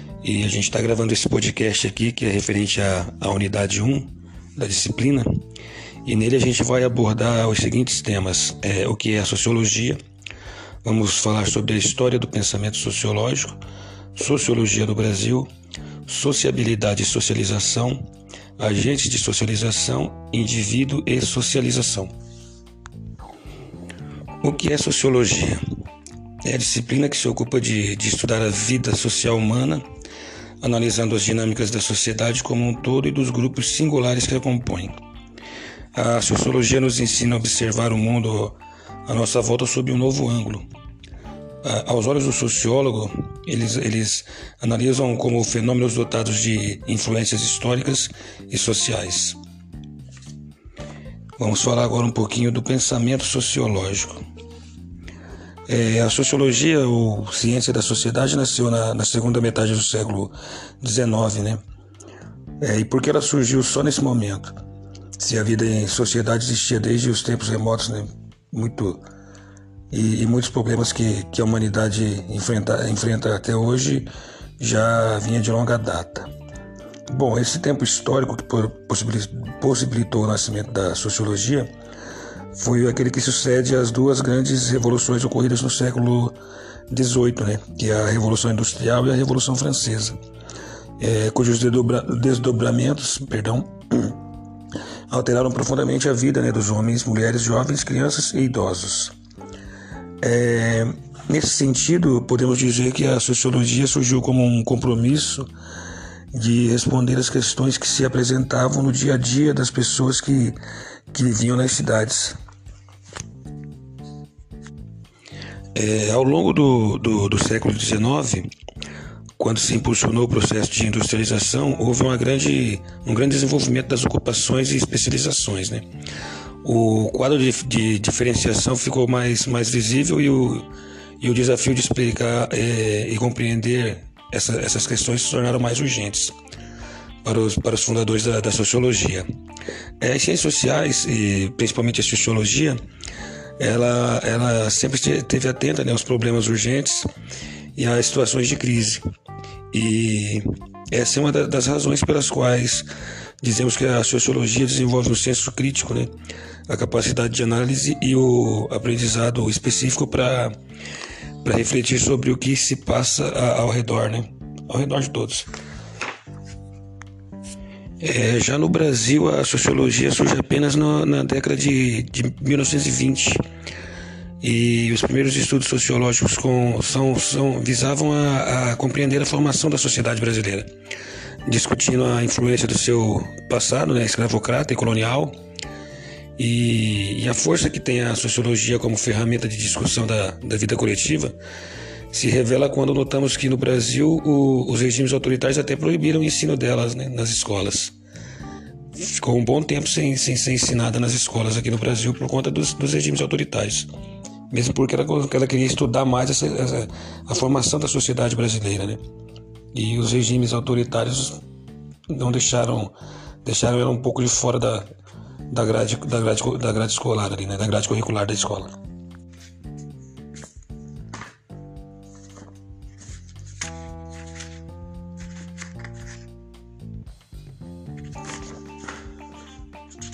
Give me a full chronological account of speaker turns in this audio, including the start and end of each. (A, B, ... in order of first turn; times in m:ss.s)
0:00.2-0:05.4 A
0:06.0-0:10.0 A
0:10.8-0:13.6 A
0:14.1-0:15.5 A
0:16.0-0:18.0 A
0:18.6-0:22.1 A
0:24.4-0:25.6 A
0:26.4-0:29.8 A
0:30.6-0:35.0 A
0:35.9-0:40.6 A
0:41.6-0:49.4 A
0:51.4-0:54.2 A
0:55.7-1:01.6 A
1:02.6-1:04.5 A
1:05.2-1:09.0 A
1:09.9-1:16.3 A
1:17.1-1:21.7 A
1:22.5-1:26.4 A
1:26.9-1:30.2 A
1:31.0-1:34.2 A
1:35.1-1:39.1 A
1:40.2-1:45.5 A
1:46.3-1:50.6 A
1:51.1-1:52.4 A
1:55.7-1:58.5 A
1:59.4-2:05.8 A
2:06.6-2:10.7 A
2:11.2-2:16.3 A
2:17.2-2:19.2 A
2:20.0-2:22.8 A
2:23.6-2:27.1 A
2:27.8-2:29.0 A
2:29.7-2:32.9 A
2:33.4-2:36.1 A
2:36.7-2:40.6 A
2:41.4-2:45.5 A
2:48.0-2:53.4 A
2:54.4-3:00.7 A
3:01.4-3:05.3 A
3:06.4-3:11.3 A
3:12.1-3:17.9 A
3:18.9-3:23.9 A
3:24.5-3:29.0 A
3:29.7-3:31.4 A
3:32.1-3:34.9 A
3:35.5-3:38.7 A